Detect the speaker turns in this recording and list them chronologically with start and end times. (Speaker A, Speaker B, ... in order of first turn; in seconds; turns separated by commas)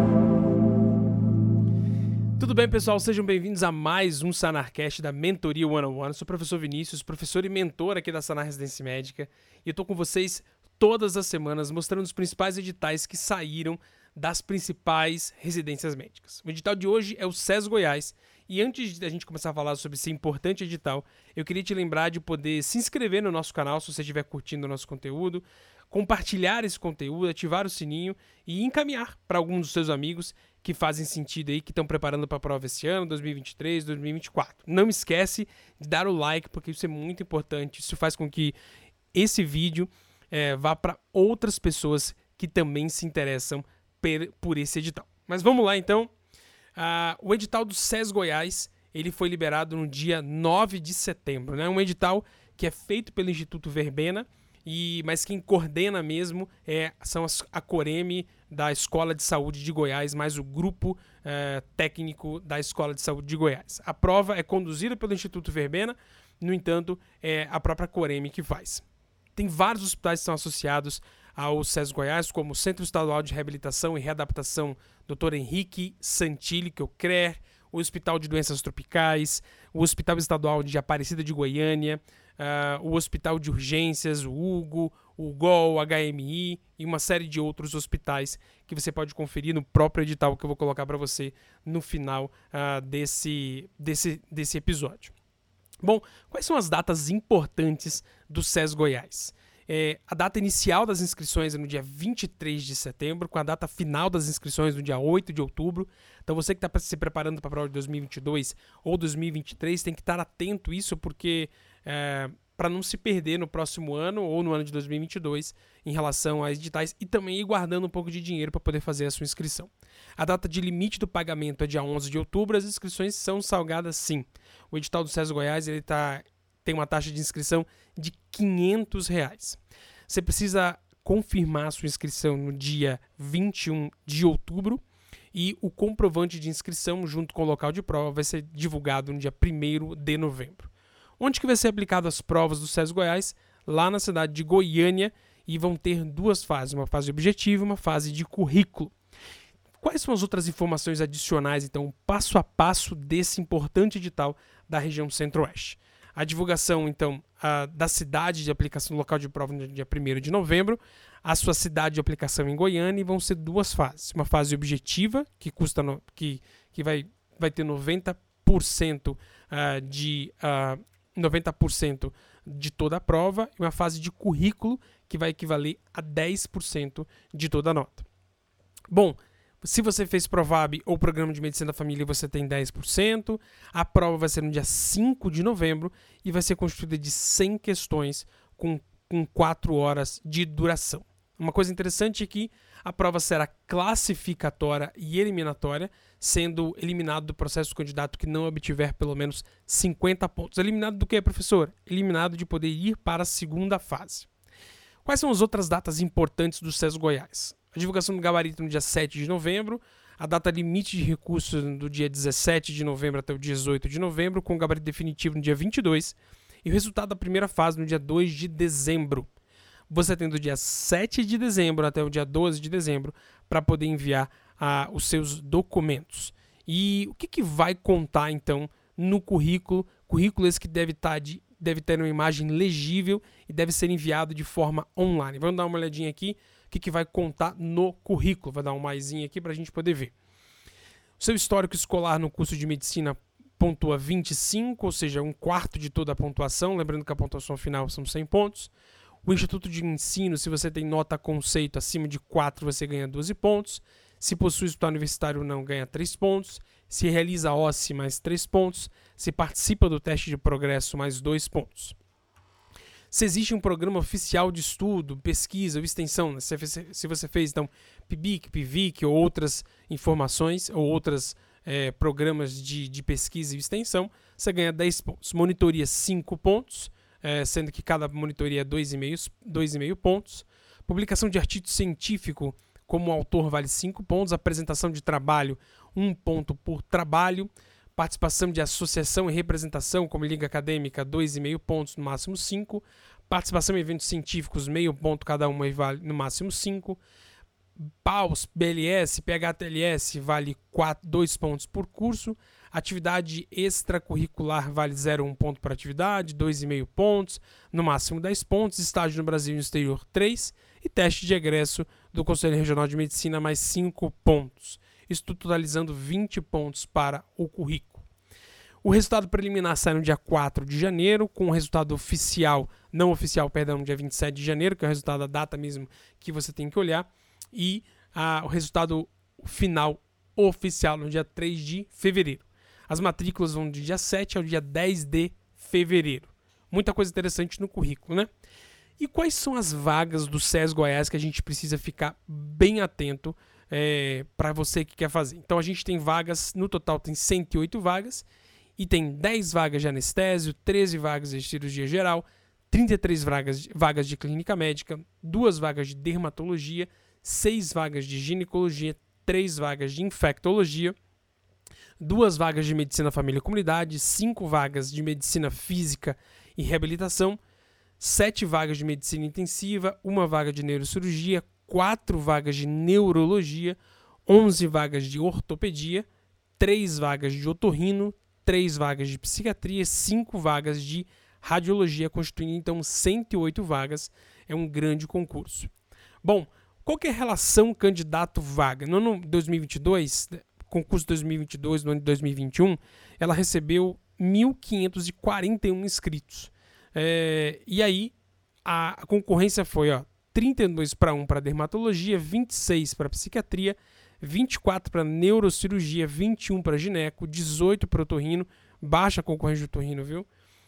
Speaker A: 2.4-38.5, Speaker A: 39.1-46.1, Speaker A: 46.8-68.8, Speaker A: 69.3-95.1, Speaker A: 95.8-148.9, Speaker A: 149.8-178.1, Speaker A: 178.9-204.3, Speaker A: 205.0-219.3, Speaker A: 219.9-240.1, Speaker A: 241.2-248.7, Speaker A: 249.2-261.9, Speaker A: 263.1-297.0, Speaker A: 298.0-318.0, Speaker A: 318.8-338.3, Speaker A: 339.0-348.2, Speaker A: 348.8-360.9, Speaker A: 362.0-367.4, Speaker A: 368.0-376.1, Speaker A: 376.6-385.7, Speaker A: 386.2-398.1, Speaker A: 398.6-410.3